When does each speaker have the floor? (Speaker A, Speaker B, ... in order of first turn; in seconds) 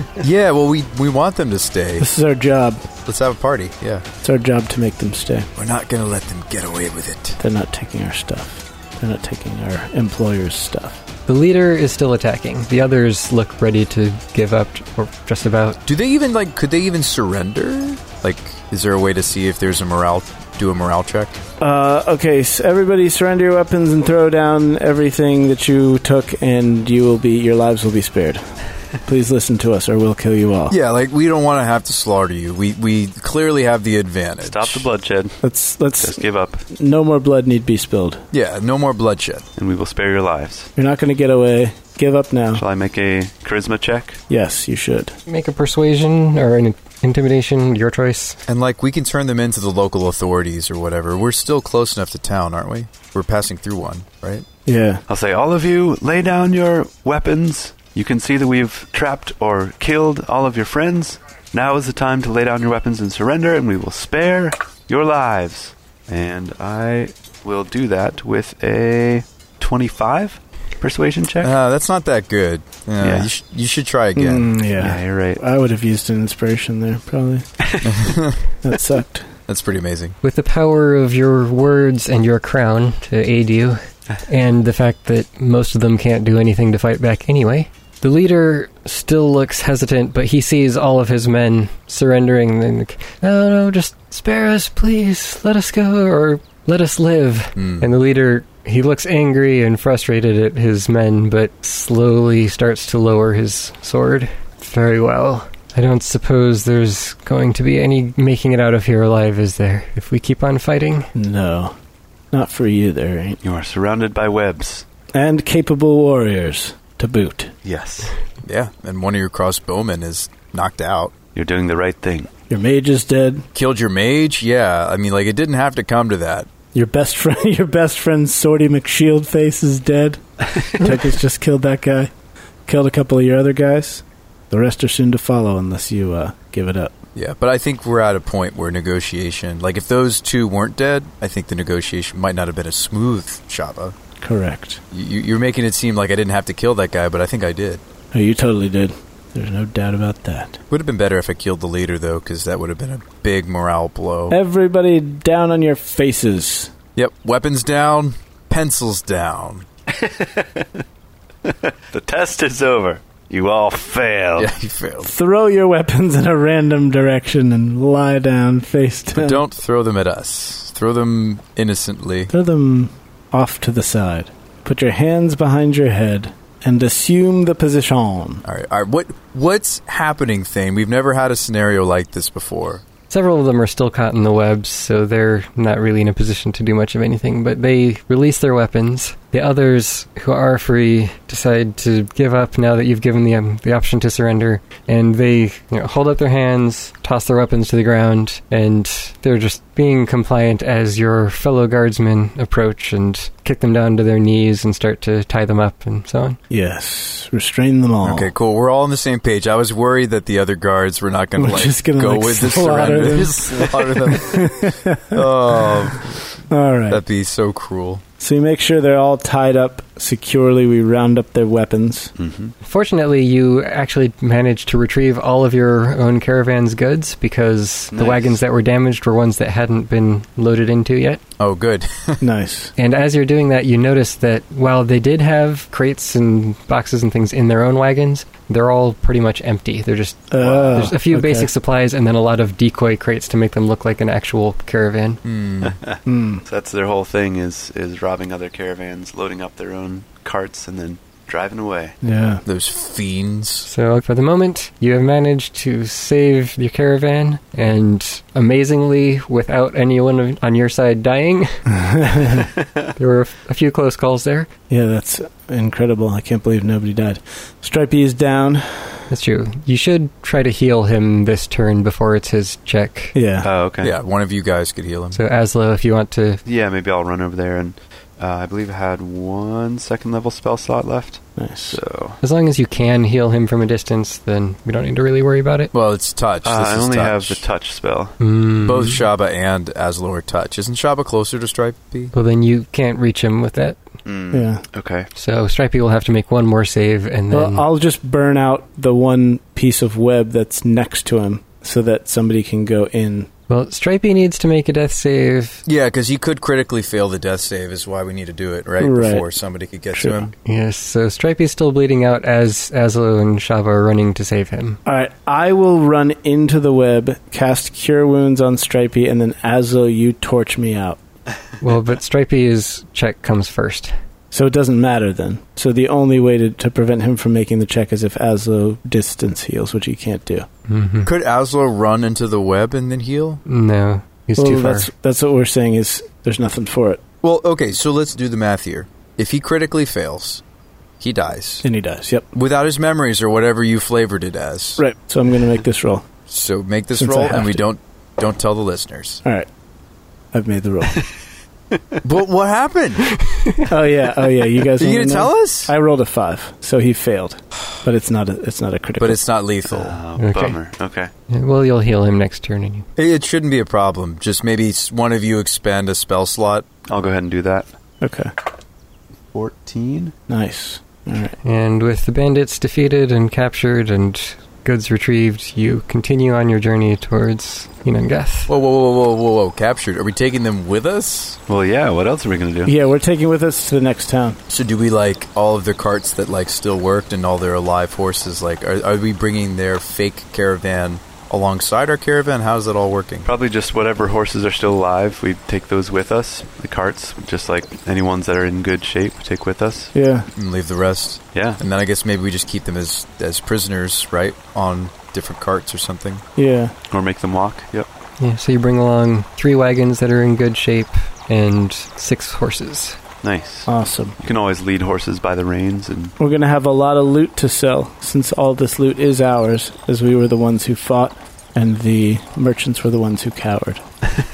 Speaker A: 0.2-2.1, 3.1-4.0, 5.6-7.4, 15.9-21.4, 30.7-34.9, 38.3-39.5, 48.5-54.5, 71.4-74.5, 77.8-78.4, 79.5-80.2, 97.6-97.9, 118.4-121.1, 123.5-126.5, 137.1-143.9, 144.9-147.8, 150.7-154.4, 157.0-159.7, 164.4-165.1, 169.1-172.3, 178.4-182.8, 208.0-216.2, 216.9-218.0, 231.4-232.3, 245.2-245.8, 252.4-253.7, 273.8-275.2, 285.7-287.4, 288.6-292.1, 305.7-310.3, 331.1-333.4, 337.2-340.4, 341.0-341.7, 342.3-344.8, 346.3-349.2, 352.0-353.1, 354.8-355.7, 359.0-360.0, 363.0-366.7, 378.5-381.4, 384.5-393.3, 400.4-406.2
Speaker B: 2.0-2.9, 4.2-5.5, 7.4-11.0, 21.6-28.4, 29.1-30.8, 35.4-38.2, 40.8-42.6, 44.3-45.2, 54.7-55.0, 74.2-77.5, 78.6-79.3, 111.1-111.8, 112.3-113.4, 115.1-117.5, 122.5-123.5, 126.7-132.1, 132.7-136.9, 144.2-144.8, 148.1-150.6, 154.3-156.7, 165.0-169.4, 172.3-178.4, 206.5-208.3, 211.4-215.8, 216.5-217.0, 218.2-222.1, 232.2-232.7, 240.3-241.5, 246.1-246.4, 252.0-252.4, 261.8-262.5, 264.7-269.1, 273.1-273.5, 281.4-281.8, 294.3-294.6, 297.3-303.3, 308.8-309.2, 309.9-310.3, 314.9-321.0, 324.3-330.5, 334.4-337.0, 341.6-342.3, 344.8-346.1, 347.0-347.6, 350.3-351.1, 353.7-359.2, 368.0-368.3, 370.3-371.4, 382.7-384.4, 399.9-400.3, 406.4-406.7, 413.7-414.2, 416.2-423.8
Speaker C: 11.3-15.8, 45.3-48.4, 80.2-111.1, 183.1-206.4, 222.6-231.2, 232.8-245.2, 253.7-261.5, 263.0-264.5, 269.1-273.1, 275.1-276.4, 282.2-285.7, 288.2-288.9, 292.1-293.8, 295.1-297.6, 303.5-305.6, 310.4-314.8, 321.6-323.9, 330.7-331.1, 333.5-334.9, 353.2-353.6, 360.2-360.6, 361.3-362.9, 371.4-378.5, 408.2-413.0
Speaker D: 34.4-35.4, 36.0-36.6, 39.6-40.7, 42.6-44.2, 55.1-71.5, 73.0-73.3, 74.8-75.4, 77.6-77.9, 113.4-114.8, 117.6-118.1, 121.3-122.3, 159.9-160.8, 161.4-164.5, 222.2-222.5, 227.9-228.4, 240.4-240.9, 245.6-252.0, 273.4-274.0, 276.4-282.2, 286.4-288.2, 294.1-295.1, 359.7-361.1, 366.9-367.7, 369.3-370.1, 381.5-382.7, 393.2-399.9, 401.3-401.6, 406.9-407.9, 413.2-416.1